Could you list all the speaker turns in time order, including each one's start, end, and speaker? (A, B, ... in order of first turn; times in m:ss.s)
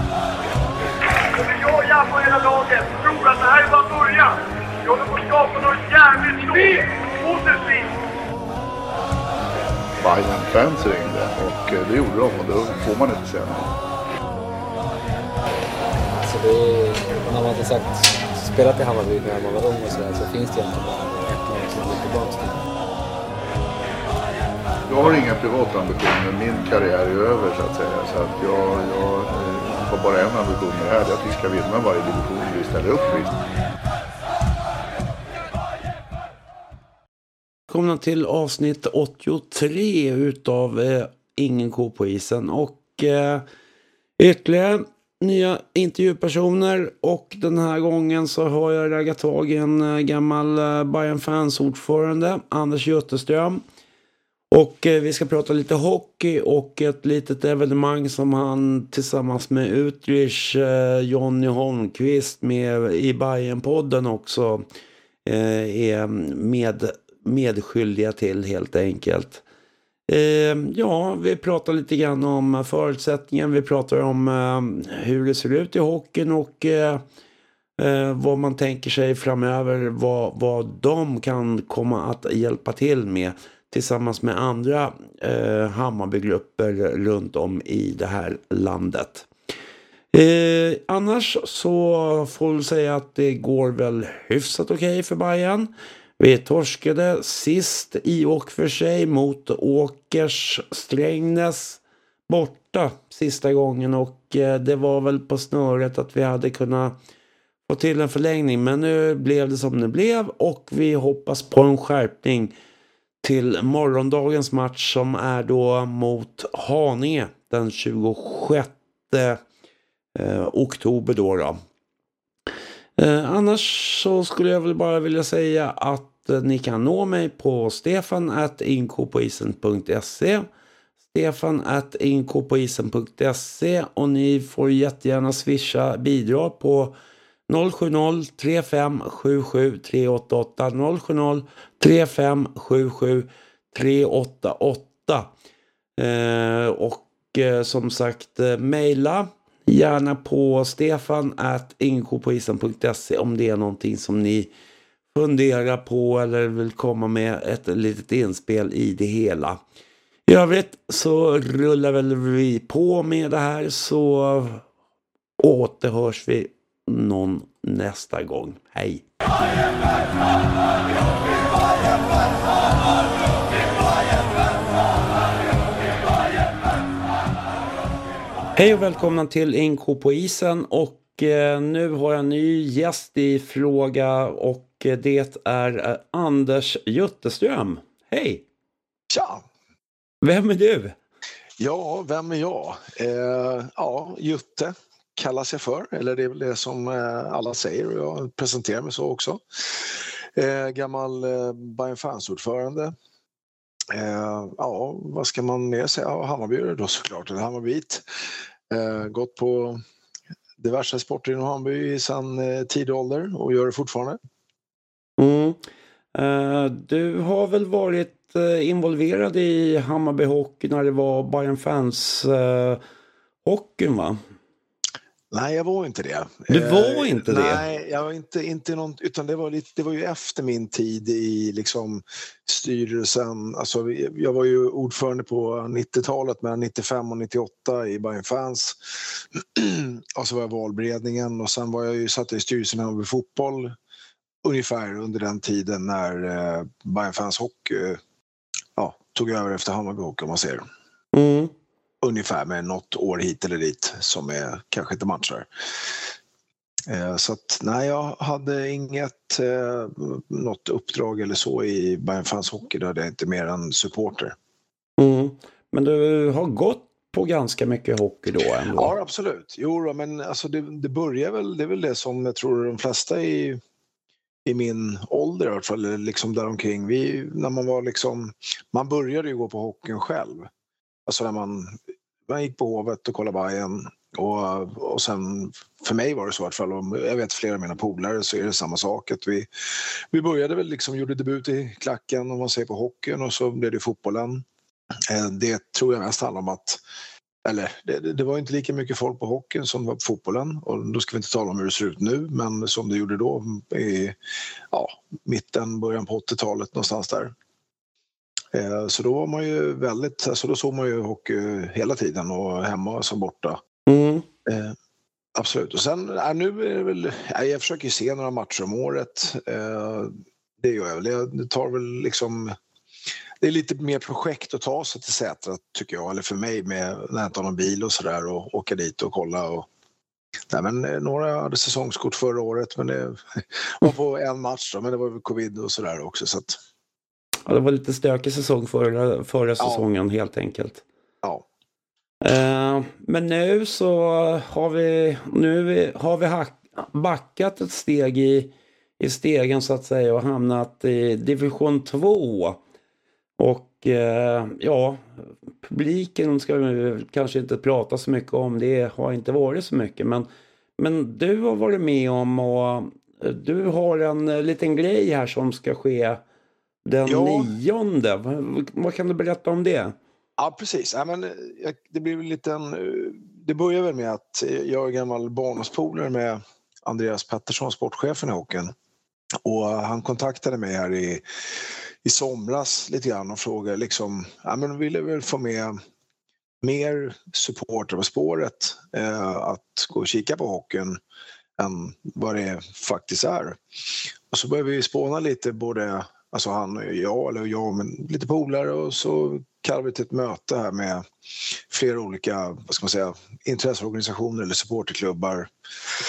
0:01.3-0:07.9 A
0:10.0-0:13.7 B
0:16.1-0:22.7 C
0:24.9-0:33.4 B
0:37.7-0:43.4 D
0:44.2-0:53.6 D
0:54.5-1:04.7 D
1:05.2-1:09.4 D
1:10.1-1:17.0 D
1:17.8-1:29.3 D
1:30.1-1:47.0 D
1:47.7-1:52.5 D
1:53.2-1:59.4 D
2:00.2-2:01.6 D
2:03.0-2:10.5 D
2:11.1-2:17.0 D
2:17.5-2:25.3 D
2:26.0-2:34.5 D
2:35.1-2:39.6 D
2:40.3-2:44.6 D
2:45.4-2:49.0 D
2:58.6-3:08.4 D
3:09.1-3:09.4 E
3:10.2-3:11.0 D
3:11.6-3:22.9 E
3:23.9-3:28.0 E
3:28.7-3:29.8 E
3:30.6-3:34.2 E
3:35.2-3:35.6 D
3:36.1-3:42.8 D
3:43.4-3:44.2 D
3:45.3-3:58.8 E
3:46.5-3:47.6 D
3:59.4-4:03.8 E
4:04.4-4:08.0 E
4:08.8-4:10.6 E
4:11.1-4:11.5 D
4:12.0-4:15.5 E
4:16.9-4:24.4 E
4:25.0-4:28.9 D
4:28.8-4:33.6 E
4:34.5-4:40.5 E
4:41.1-4:49.5 E
4:50.1-4:54.4 E
4:55.1-4:56.8 E
4:57.4-5:04.2 E
5:04.7-5:07.3 E
5:08.5-5:13.6 E
5:13.9-5:14.3 D
5:14.5-5:14.8 E
5:15.4-5:22.6 E
5:23.4-5:29.7 E
5:30.5-5:36.6 E
5:37.5-5:40.8 D
5:42.2-5:52.6 D
5:53.4-5:55.0 D
5:55.6-6:00.3 D
6:00.8-6:06.2 D
6:06.9-6:10.0 D
6:07.1-6:07.5 E
6:10.4-6:18.7 E
6:19.4-6:21.2 E
6:22.0-6:25.8 E
6:26.6-6:31.0 E
6:31.6-6:33.6 E
6:34.3-6:41.0 E
6:41.7-6:45.5 E